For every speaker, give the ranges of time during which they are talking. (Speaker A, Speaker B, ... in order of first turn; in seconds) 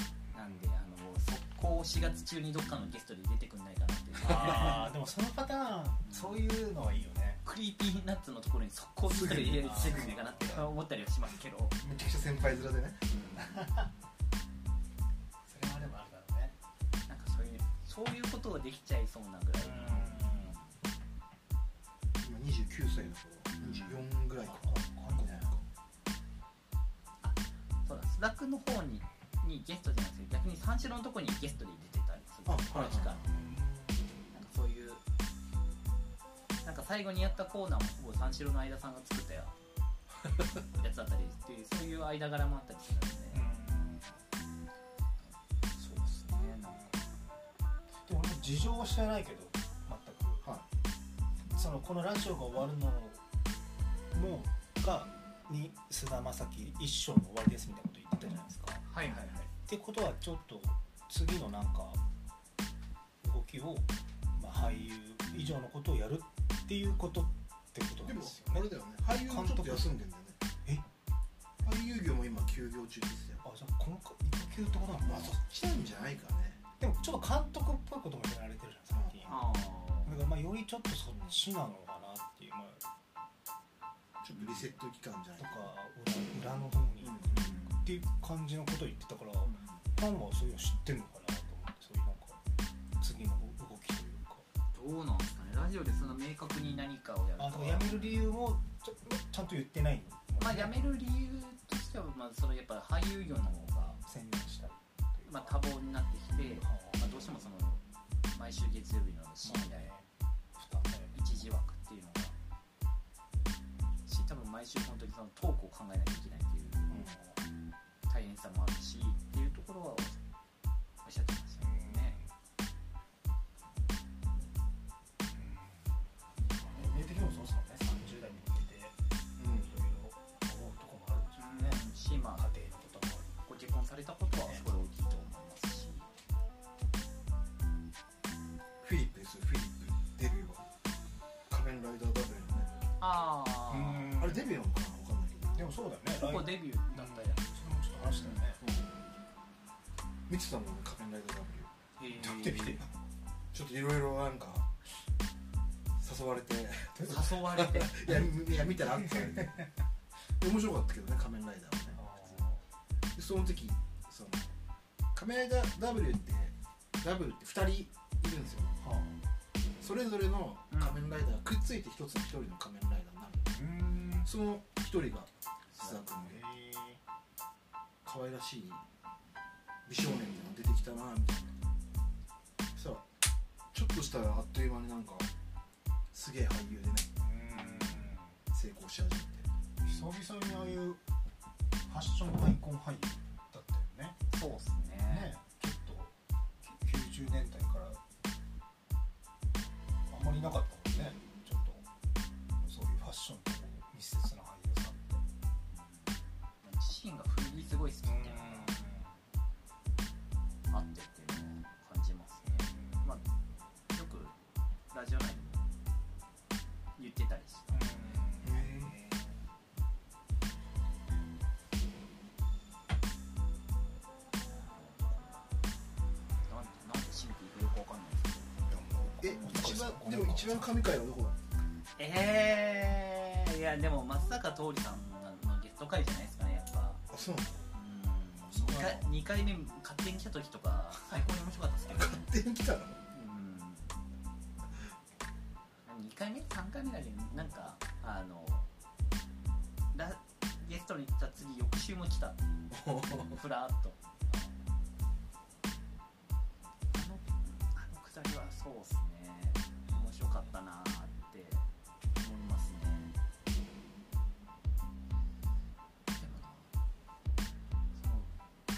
Speaker A: 0.3-4.8, 6.0-6.4, 7.4-11.8, 13.1-13.7, 17.1-20.7, 23.6-24.0, 27.2-33.2, 34.3-35.0, 36.6-39.5, 40.7-43.5, 45.8-47.1, 58.9-59.4, 79.2-80.1, 94.7-98.2, 100.4-104.0, 105.3-107.8, 108.3-109.9, 111.1-112.3, 114.1-117.0, 118.1-120.2, 121.0-122.2, 126.4-126.8, 131.4-132.4, 133.4-136.1, 143.0-144.2, 146.2-147.4, 148.1-148.4, 152.0-152.8, 157.0-157.9, 170.7-171.0, 187.5-188.1, 194.3-195.3, 205.7-208.8, 210.7-213.2, 213.9-214.3, 214.9-215.7, 216.9-218.1, 224.4-225.5, 226.4-228.6, 232.0-237.0, 237.7-242.3, 243.1-243.9, 245.9-248.7, 249.9-252.4, 253.1-254.5, 256.9-263.1, 266.2-266.7, 267.9-268.3
Speaker B: 4.2-7.4, 9.3-10.6, 13.4-13.9, 15.5-16.5, 19.6-20.5, 24.4-25.5, 33.3-34.1, 43.3-44.2, 48.0-50.4, 51.5-53.2, 54.1-58.8, 59.5-62.0, 63.2-68.7, 69.2-70.0, 73.4-75.4, 76.8-79.4, 80.0-82.8, 84.4-84.7, 85.4-92.4, 93.0-94.4, 97.4-100.9, 104.0-105.6, 106.6-107.1, 109.4-111.5, 116.9-117.4, 121.6-122.2, 125.3-126.0, 126.6-128.9, 129.5-133.4, 134.5-134.8, 143.7-144.5, 145.6-148.6, 152.2-152.9, 156.9-157.3, 158.9-159.7, 161.9-162.6, 168.8-169.2, 173.5-174.3, 176.1-177.0, 187.2-188.4, 189.8-191.0, 191.9-194.2, 195.1-198.0, 200.1-201.8, 202.6-205.2, 208.0-209.1, 212.4-213.1, 217.7-219.4, 228.7-230.9, 238.5-239.1
Speaker C: 9.1-10.3, 11.8-13.0, 22.2-25.6, 32.5-33.2, 59.0-59.4, 68.0-70.4, 71.6-73.4, 75.0-76.6, 78.9-79.4, 84.2-85.7, 87.0-87.7, 89.5-89.8, 129.4-129.7, 138.8-140.7, 141.5-142.7, 144.2-145.7, 148.6-148.9, 150.3-151.7, 153.5-154.7, 156.0-159.7, 160.4-162.2, 163.1-164.5, 165.1-168.8, 169.8-173.6, 174.2-176.4, 178.1-178.8, 179.9-181.5, 182.7-183.1, 183.7-185.3, 186.1-187.1, 188.5-189.5, 218.4-218.9, 229.2-231.4, 237.1-237.6, 241.9-243.0, 252.7-253.4